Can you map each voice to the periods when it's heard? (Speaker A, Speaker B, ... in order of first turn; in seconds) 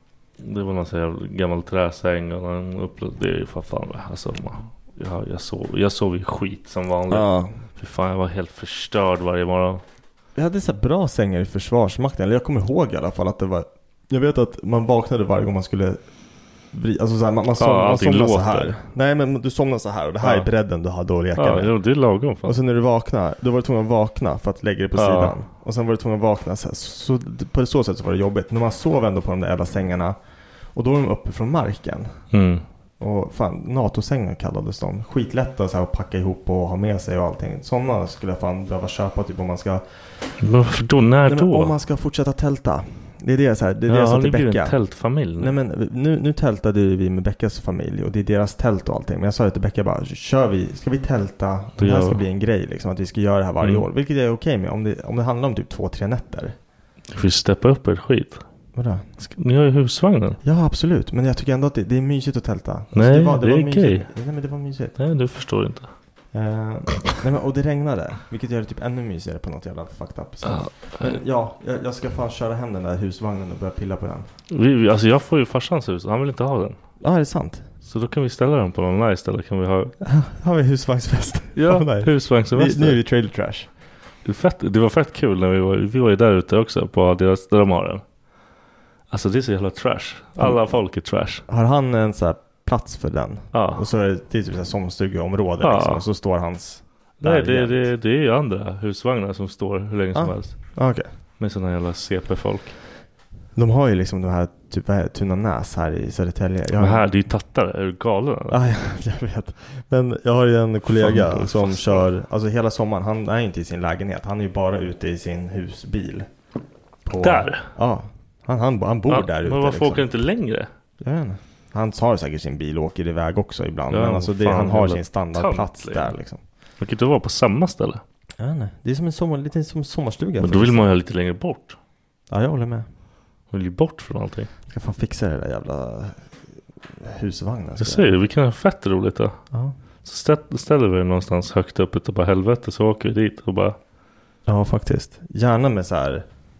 Speaker A: 0.4-9.8, 17.6-18.7, 20.2-20.5, 21.4-22.6, 24.9-25.3, 32.3-32.6, 40.4-41.7, 43.9-45.5, 51.8-52.2, 53.6-53.9, 57.1-58.4, 59.2-60.4, 62.9-64.1, 65.0-65.9, 70.4-71.2, 74.5-76.8, 77.8-79.9, 81.5-83.0, 84.2-88.0, 89.1-91.4, 93.5-93.8, 95.6-96.0, 97.2-100.7, 101.4-102.8, 106.8-108.6, 110.9-112.1, 117.2-117.7, 119.1-120.7, 123.9-126.1, 126.8-128.0, 130.4-131.8, 133.5-134.5, 137.8-139.4, 140.0-143.8
Speaker B: 7.1-7.6, 10.3-16.0, 16.7-21.7, 22.4-30.2, 30.7-32.2, 33.0-40.0, 41.2-44.8, 45.4-56.5, 58.7-59.1, 60.4-65.0, 66.3-74.3, 77.0-77.7, 80.0-83.7, 90.4-90.8, 91.5-97.9, 100.1-101.1, 103.5-107.0, 108.5-116.3, 117.0-120.1, 121.0-126.4, 128.4-130.9, 132.3-132.9, 134.7-136.3, 136.9-138.1, 139.5-139.8, 144.4-146.2